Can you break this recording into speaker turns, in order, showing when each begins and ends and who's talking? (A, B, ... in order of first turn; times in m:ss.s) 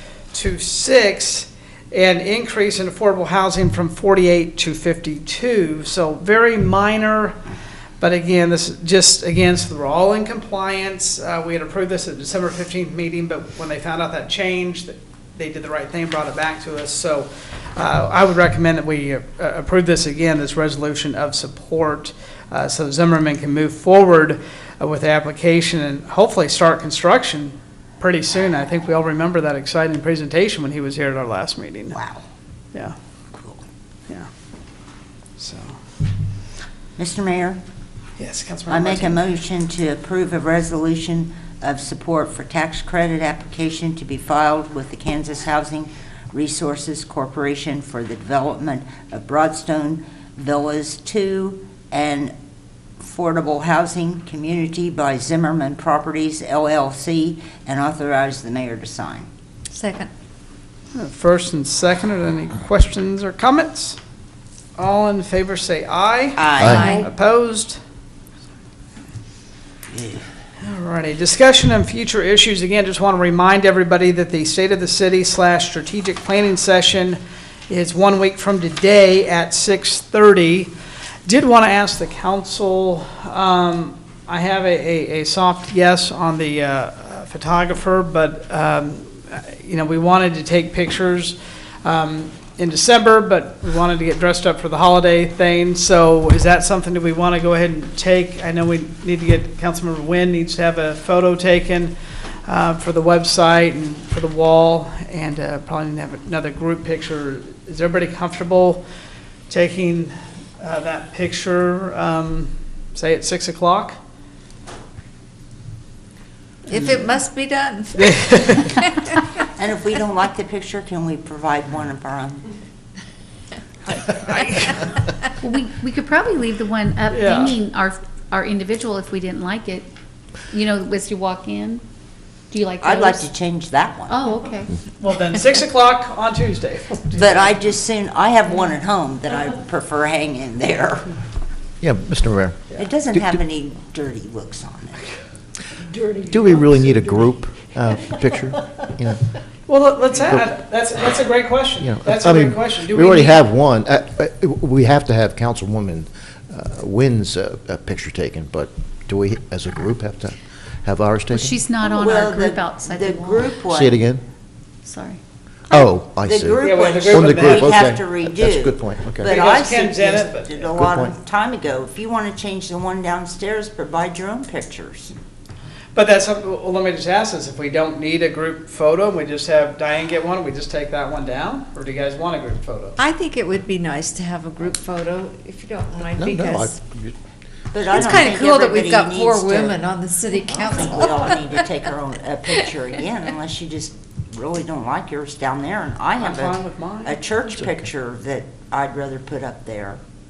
0:00.3-0:07.4 A
0:08.0-0:32.0 A
0:31.9-0:32.2 B
0:33.3-0:33.6 B
0:35.4-0:35.8 A
0:37.0-0:37.6 B
0:38.2-0:39.2 A
0:38.7-0:52.3 B
0:53.0-0:59.3 B
0:59.7-1:00.1 C
1:00.9-1:04.0 A
1:04.8-1:07.8 A
1:06.4-1:06.9 B
1:06.6-1:06.9 D
1:06.6-1:07.1 C
1:09.9-1:10.2 B
1:10.6-1:20.7 A
1:21.3-1:48.8 A
1:49.5-1:54.0 A
1:56.7-1:59.2 C
1:58.0-1:58.8 A
1:59.5-2:02.4 B
2:04.0-2:04.9 A
2:05.4-2:09.9 E
2:07.1-2:07.6 A
2:10.5-2:11.8 E
2:12.5-2:13.3 E
2:12.8-2:14.2 B
2:14.1-2:14.7 E
2:15.0-2:17.5 A
2:17.1-2:21.1 B
2:21.8-2:23.4 D
2:22.8-2:25.0 B
2:26.2-2:29.2 D
2:29.7-2:33.4 A
2:30.2-2:30.5 D
2:31.8-2:41.6 D
2:41.3-2:43.5 E
2:41.8-2:44.0 B
2:43.7-2:44.2 D
2:44.8-2:45.2 E
2:45.7-2:49.3 D
2:46.2-2:55.1 B
2:46.6-2:47.8 A
2:49.2-2:50.7 A
2:50.8-2:51.1 D
2:56.0-3:03.0 A
3:03.0-3:06.7 C
3:06.2-3:07.2 D
3:07.7-3:09.8 B
3:07.8-3:11.7 C
3:10.5-3:20.0 B
3:16.2-3:17.2 A